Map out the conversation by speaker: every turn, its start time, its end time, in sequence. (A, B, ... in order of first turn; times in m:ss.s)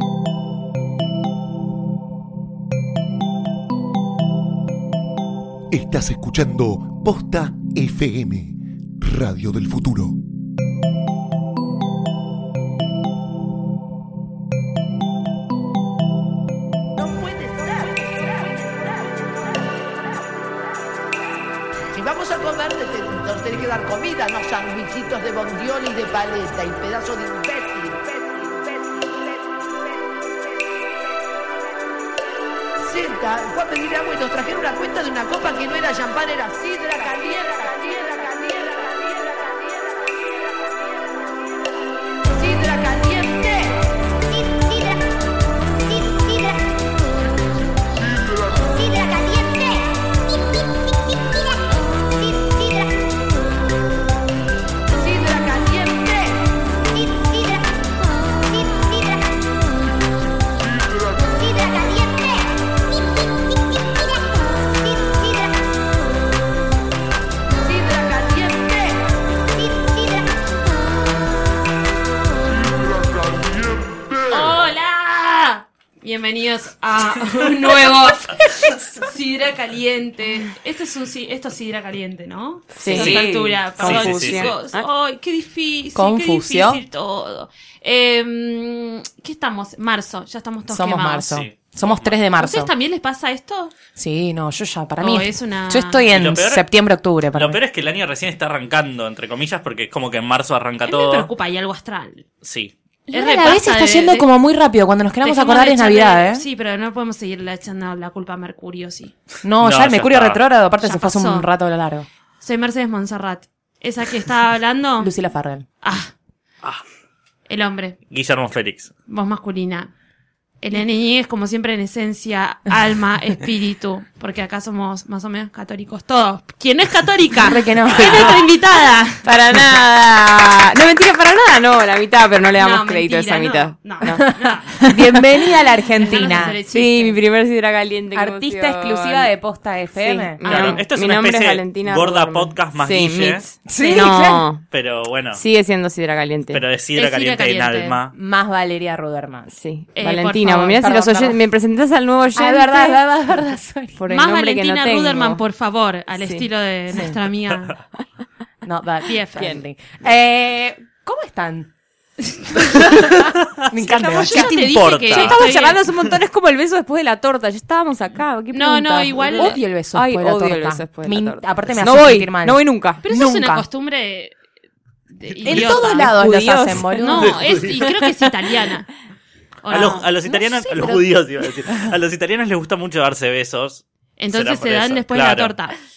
0:05.7-0:10.2 A
0:17.0-0:20.3 B
0:21.9-0:31.1 B
0:32.8-0:41.7 B
0:42.2-0:44.9 B
0:46.0-0:46.5 B
0:48.4-0:49.8 B
0:54.9-0:57.6 B
1:01.2-1:02.2 B
1:07.6-1:09.0 B
1:13.2-1:14.0 B
1:14.2-1:31.4 C
1:22.8-1:24.8 D
1:22.8-1:24.5 E
1:25.9-1:26.8 F
1:30.7-1:32.7 F
1:31.3-1:32.2 E
1:32.4-1:33.7 C
1:34.0-1:37.6 F
1:35.0-1:36.0 C
1:36.1-1:36.7 E
1:37.3-1:41.3 E
1:40.8-1:42.2 C
1:42.4-1:42.7 E
1:43.1-1:46.4 F
1:43.1-1:44.3 C
1:45.2-1:49.1 C
1:49.4-1:52.1 F
1:49.6-1:50.4 E
1:50.8-1:51.5 C
1:52.4-1:55.1 C
1:55.0-1:55.6 F
1:55.8-1:56.1 C
1:57.5-1:58.0 C
1:58.1-1:58.9 E
1:59.1-1:59.9 C
2:00.6-2:09.2 C
2:07.4-2:08.3 F
2:08.0-2:08.3 E
2:09.2-2:15.1 D
2:12.6-2:14.8 C
2:14.8-2:16.6 F
2:16.0-2:17.1 C
2:16.1-2:19.3 D
2:18.1-2:20.4 F
2:20.0-2:24.6 D
2:20.4-2:20.8 C
2:20.4-2:23.4 E
2:23.6-2:24.5 F
2:24.7-2:25.4 E
2:25.3-2:26.6 D
2:26.5-2:28.1 E
2:27.0-2:27.9 C
2:28.1-2:29.5 F
2:29.5-2:33.0 D
2:29.9-2:30.9 C
2:30.8-2:31.4 F
2:32.4-2:34.0 F
2:34.0-2:35.4 D
2:34.1-2:37.7 C
2:36.2-2:36.4 D
2:36.9-2:37.2 F
2:38.6-2:41.7 F
2:39.1-2:39.5 C
2:39.4-2:39.6 D
2:42.5-2:44.7 F
2:43.8-2:44.5 D
2:44.2-2:45.8 C
2:44.3-2:45.4 E
2:45.1-2:53.0 D
2:48.5-2:49.6 C
2:49.2-2:53.6 F
2:53.0-2:54.3 C
2:55.1-2:56.1 C
2:55.4-2:57.4 F
2:55.5-2:58.3 D
2:57.0-2:58.9 C
2:57.3-2:57.7 E
2:59.6-3:00.0 C
2:59.7-3:05.5 E
3:00.2-3:01.2 F
3:04.2-3:05.7 C